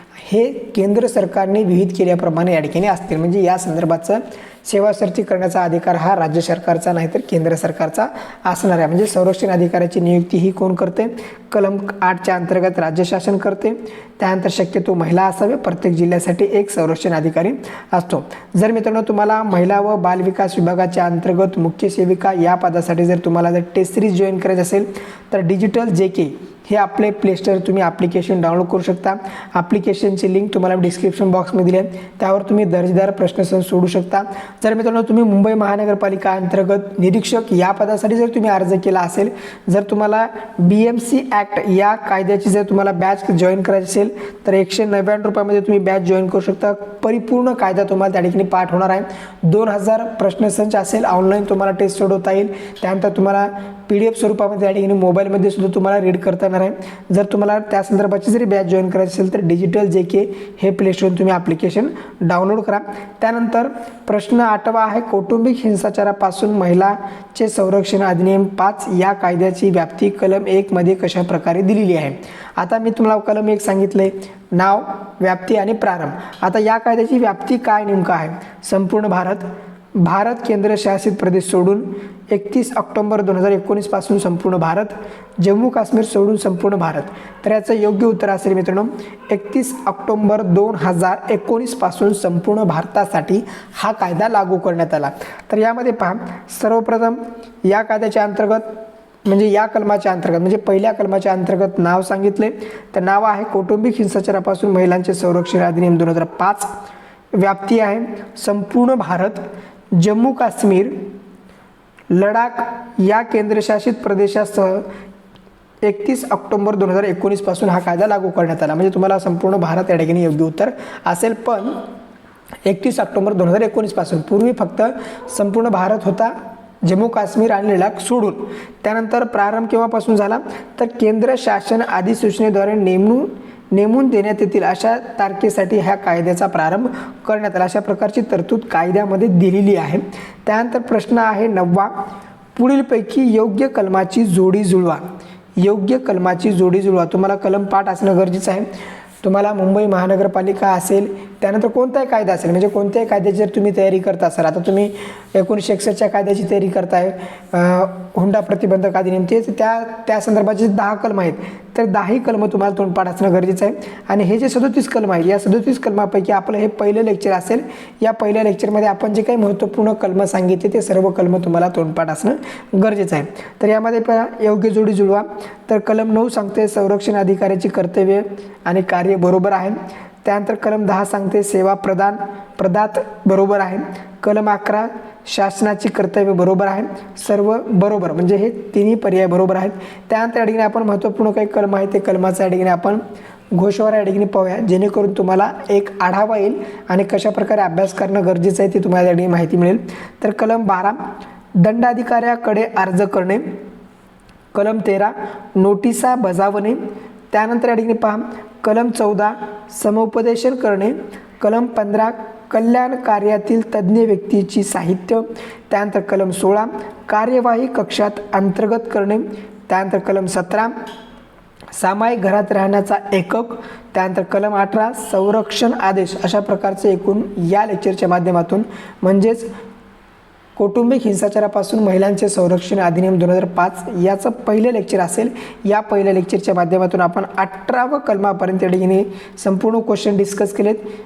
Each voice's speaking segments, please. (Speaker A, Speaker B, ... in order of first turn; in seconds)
Speaker A: 0.2-106.7, 107.3-109.4, 109.9-111.0, 112.1-114.8, 115.8-121.8, 122.7-141.9, 142.6-145.0, 145.6-148.7, 149.2-193.0, 193.5-201.0, 201.6-203.4, 204.5-220.7, 221.8-229.5, 230.6-240.8